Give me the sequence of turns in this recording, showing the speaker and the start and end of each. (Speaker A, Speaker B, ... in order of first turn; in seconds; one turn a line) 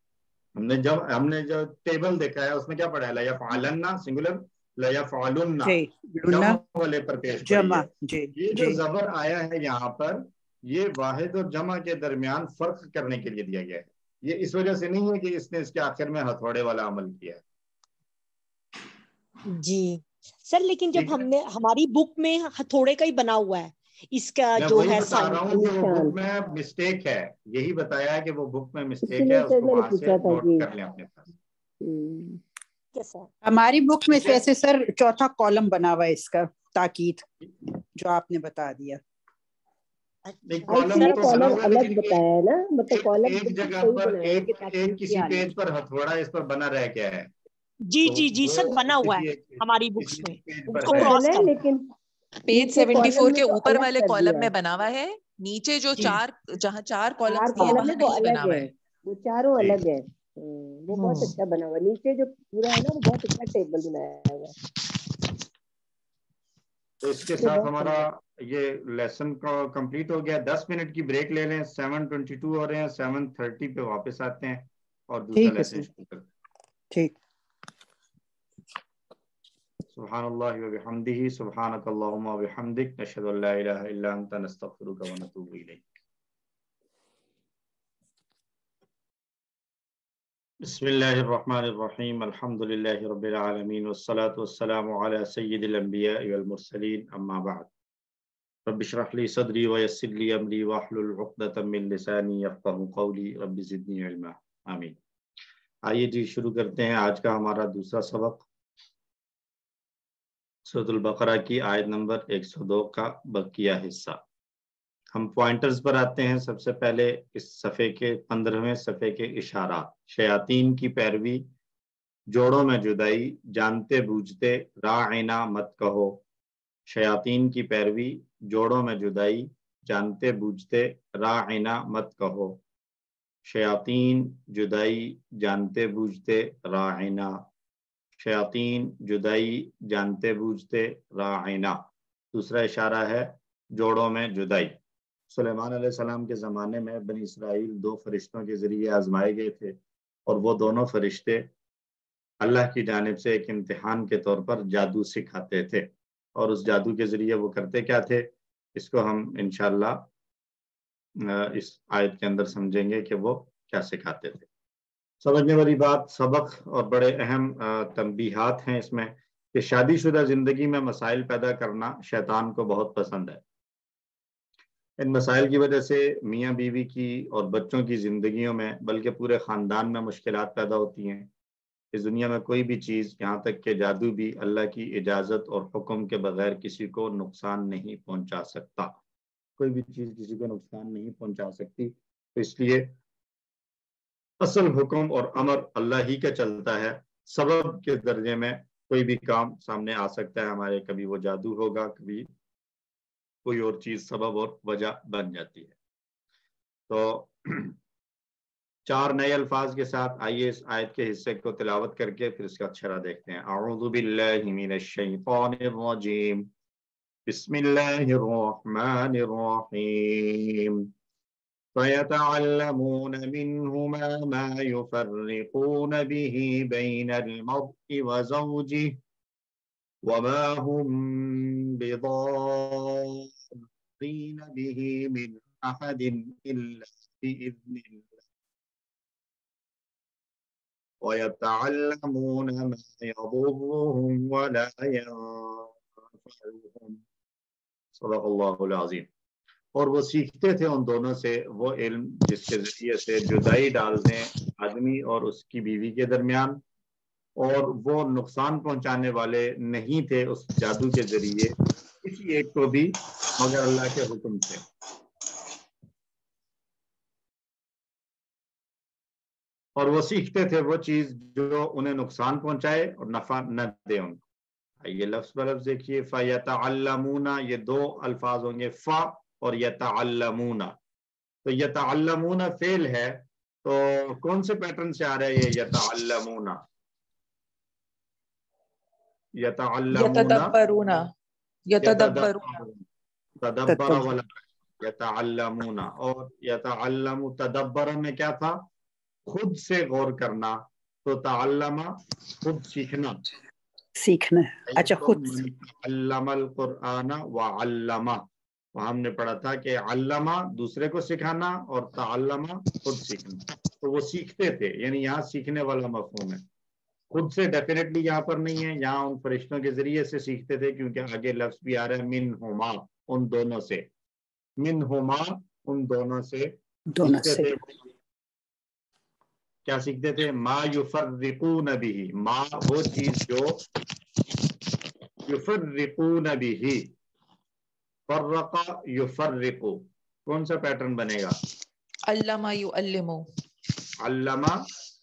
Speaker A: 0.6-5.8
Speaker B: 5.6-6.6
Speaker A: 6.3-17.4
Speaker B: 7.5-8.8
Speaker C: 19.5-25.4
Speaker A: 20.9-21.2
Speaker A: 24.6-31.3
Speaker D: 25.1-26.1
Speaker D: 29.1-30.7
Speaker D: 31.8-32.4
Speaker C: 33.0-33.3
Speaker B: 33.5-37.3
Speaker B: 38.0-39.0
Speaker A: 40.5-42.2
Speaker D: 40.7-45.5
Speaker C: 40.7-41.4
Speaker A: 42.9-47.3
Speaker C: 47.9-51.6
Speaker A: 48.0-51.2
Speaker D: 50.7-51.9
Speaker E: 52.4-58.7
Speaker D: 52.5-54.5
Speaker D: 57.3-64.5
Speaker C: 57.5-58.0
Speaker A: 59.6-59.8
Speaker E: 60.9-61.3
Speaker A: 67.0-76.3
Speaker D: 67.4-68.0
Speaker B: 75.3-75.9
Speaker A: 79.9-85.9
Speaker A: 90.6-97.7
Speaker A: 98.7-105.0
Speaker A: 105.9-108.4
Speaker A: 110.7-114.2
Speaker A: 115.1-121.5
Speaker A: 122.3-126.2
Speaker A: 126.9-132.6
Speaker A: 133.5-137.4
Speaker A: 138.2-141.8
Speaker A: 142.3-144.8
Speaker A: 145.3-149.8
Speaker A: 150.3-151.5
Speaker A: 152.4-160.1
Speaker A: 161.2-164.5
Speaker A: 165.2-173.4
Speaker A: 175.0-181.3
Speaker A: 181.9-188.9
Speaker A: 189.6-192.9
Speaker A: 194.4-202.3
Speaker A: 203.4-205.7
Speaker A: 206.9-207.8
Speaker A: 208.9-216.5
Speaker A: 217.3-220.8
Speaker A: 221.8-229.0
Speaker A: 230.0-238.1
Speaker A: 241.0-247.0
Speaker A: 248.0-249.1
Speaker A: 249.8-256.6
Speaker A: 257.4-264.6
Speaker A: 269.8-274.2
Speaker A: 274.8-280.8
Speaker A: 281.4-286.6
Speaker A: 289.4-290.5
Speaker E: 289.9-291.1
Speaker E: 291.7-292.6
Speaker A: 291.8-292.8
Speaker A: 293.4-294.3
Speaker B: 293.7-294.1
Speaker A: 294.8-298.6
Speaker A: 299.3-303.2
Speaker B: 304.0-305.5
Speaker A: 304.7-316.4
Speaker A: 317.1-323.9
Speaker A: 324.6-327.7
Speaker B: 326.9-327.5
Speaker A: 329.7-333.6
Speaker A: 335.3-336.9
Speaker A: 338.1-341.4
Speaker E: 342.1-343.3
Speaker A: 344.0-344.6